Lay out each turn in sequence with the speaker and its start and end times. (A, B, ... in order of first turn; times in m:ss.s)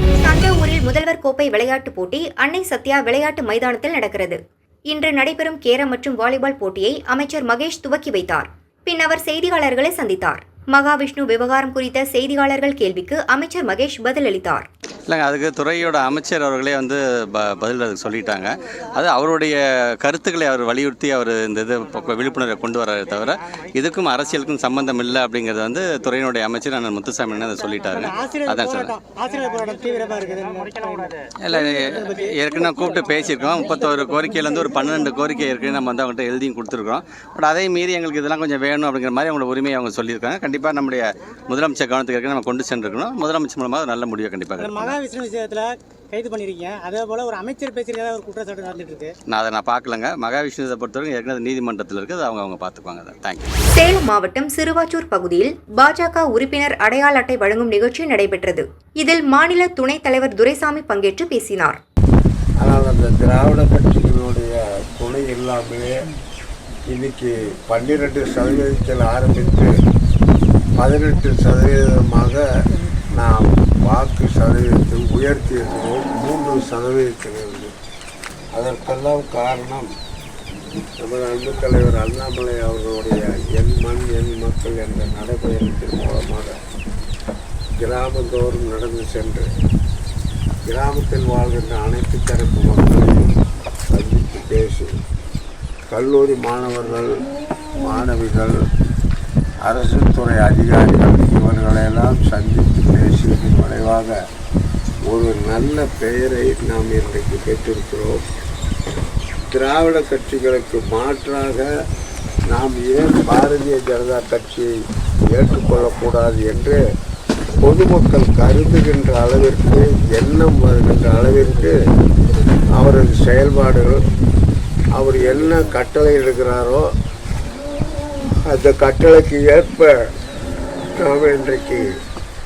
0:00.2-0:14.7 A
0:15.1-0:29.0 B
0:28.0-0:31.2 C
0:31.4-0:45.0 B
0:31.9-0:32.3 C
0:44.6-0:49.1 C
0:49.3-0:53.5 B
0:53.8-1:01.8 A
1:02.6-1:05.9 D
1:06.9-1:09.7 D
1:10.8-1:12.4 D
1:13.1-1:17.7 D
1:18.6-1:19.9 D
1:21.0-1:26.6 D
1:27.8-1:29.5 D
1:30.7-1:33.3 D
1:33.9-1:34.9 D
1:35.9-1:37.2 D
1:37.8-1:38.5 D
1:39.6-1:44.2 D
1:45.1-1:48.2 D
1:49.5-1:51.7 D
1:52.5-1:54.7 D
1:55.3-1:56.8 D
1:57.6-2:01.8 D
2:02.8-2:04.0 D
2:05.0-2:06.9 D
2:08.5-2:09.9 D
2:11.0-2:11.9 D